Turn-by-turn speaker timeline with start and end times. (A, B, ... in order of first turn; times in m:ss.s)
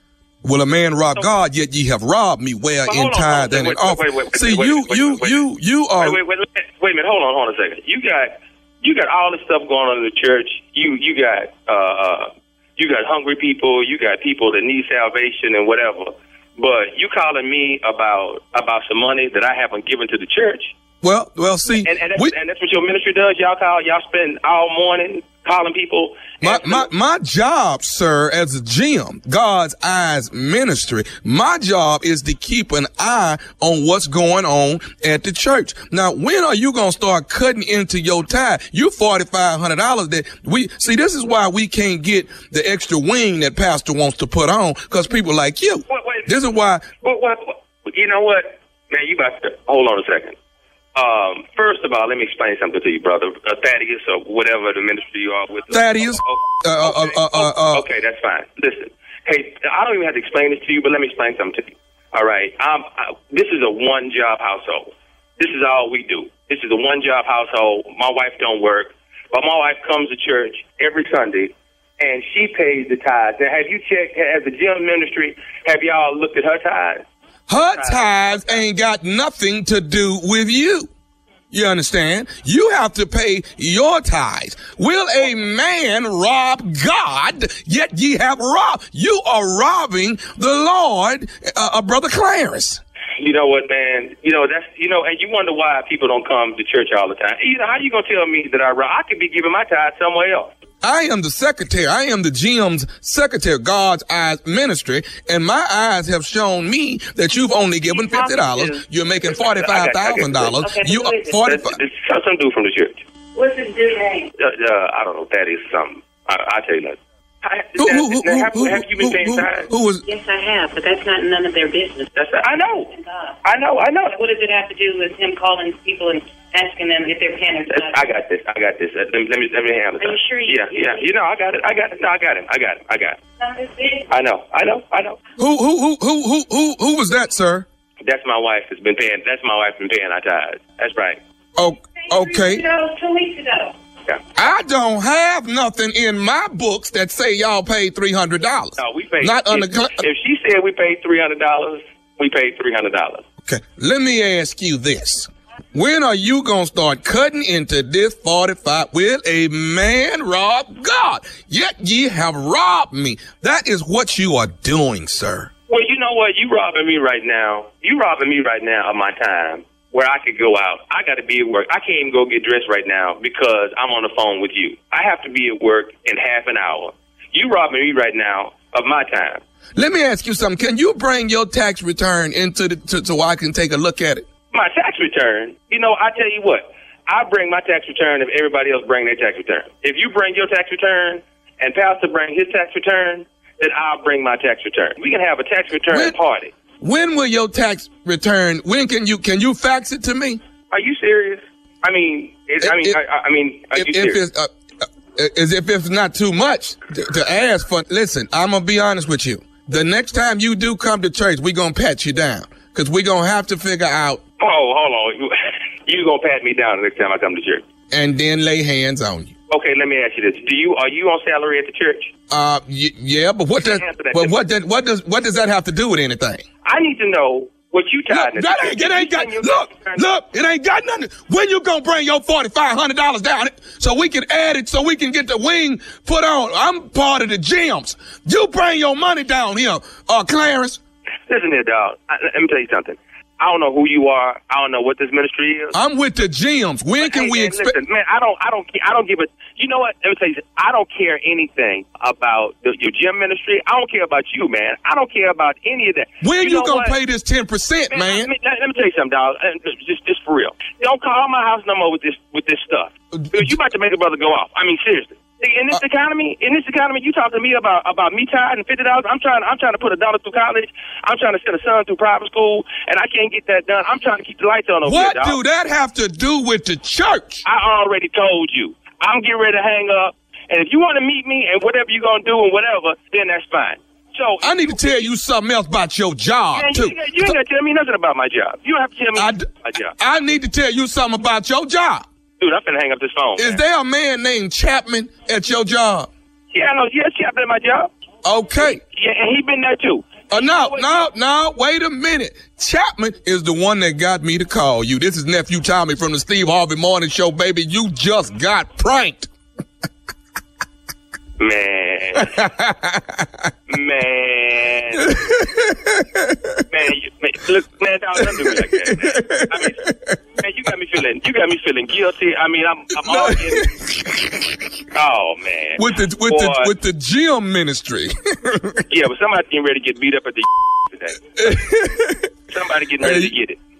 0:00.4-0:06.2 A
0:02.8-0:05.4 B
0:06.0-0:20.7 B
0:21.0-0:22.3 A
0:21.8-0:26.9 B
0:26.4-0:46.8 A
0:45.9-0:46.3 B
0:47.0-0:50.4 B
0:50.9-1:17.0 B
0:55.7-0:57.8 A
1:17.5-1:20.9 A
1:17.7-1:18.6 B
1:21.5-1:32.8 A
1:33.2-1:40.5 B
1:40.8-1:51.8 A
1:47.9-1:48.3 C
1:49.3-1:50.7 B
1:50.6-1:51.3 C
1:51.4-1:53.0 B
1:53.4-1:54.3 C
1:54.4-1:59.6 B
1:57.8-2:00.0 A
2:00.0-2:02.1 C
2:02.1-2:02.9 B
2:02.9-2:03.3 C
2:03.4-2:04.2 B
2:04.1-2:08.0 C
2:07.7-2:13.2 B
2:10.0-2:10.9 C
2:13.4-2:14.0 C
2:14.1-2:15.2 B
2:15.4-2:17.6 A
2:18.0-2:21.2 B
2:21.6-2:22.7 A
2:22.3-2:23.7 C
2:24.4-2:30.0 A
2:28.8-2:33.2 B
2:33.4-2:45.5 A
2:45.7-2:59.4 B
2:59.8-3:04.2 A
3:04.5-3:16.5 B
3:16.8-3:20.4 A
3:20.7-3:24.2 B
3:22.6-3:23.0 A
3:23.7-3:34.2 A
3:34.4-3:35.3 B
3:35.8-3:37.6 B
3:37.9-3:39.3 A
3:39.5-3:42.1 B
3:42.3-3:46.4 A
3:43.6-3:44.4 B
3:46.6-3:50.1 B
3:48.1-4:00.8 A
4:01.3-4:05.7 B
4:05.7-4:07.8 A
4:07.0-4:17.0 B
4:16.2-4:18.3 A
4:17.9-4:35.4 B
4:23.2-4:23.5 A
4:34.8-4:37.4 A
4:37.4-4:45.1 B
4:44.4-4:47.3 A
4:46.5-4:49.9 B
4:49.1-4:52.0 A
4:52.4-4:53.6 B
4:53.4-4:56.1 A
4:56.5-4:57.9 B
4:58.2-4:58.8 A
4:58.6-5:01.1 B
5:00.3-5:09.3 A
5:11.4-5:12.3 B
5:12.2-5:13.3 A
5:13.7-5:15.1 B
5:15.1-5:16.4 A
5:16.7-5:19.8 B
5:18.5-5:20.1 A
5:20.4-5:23.7 B
5:23.1-5:24.6 A
5:24.9-5:26.7 B
5:25.8-5:28.8 A
5:28.9-5:31.4 B
5:31.4-5:32.3 A
5:32.5-5:33.6 B
5:33.0-5:33.3 A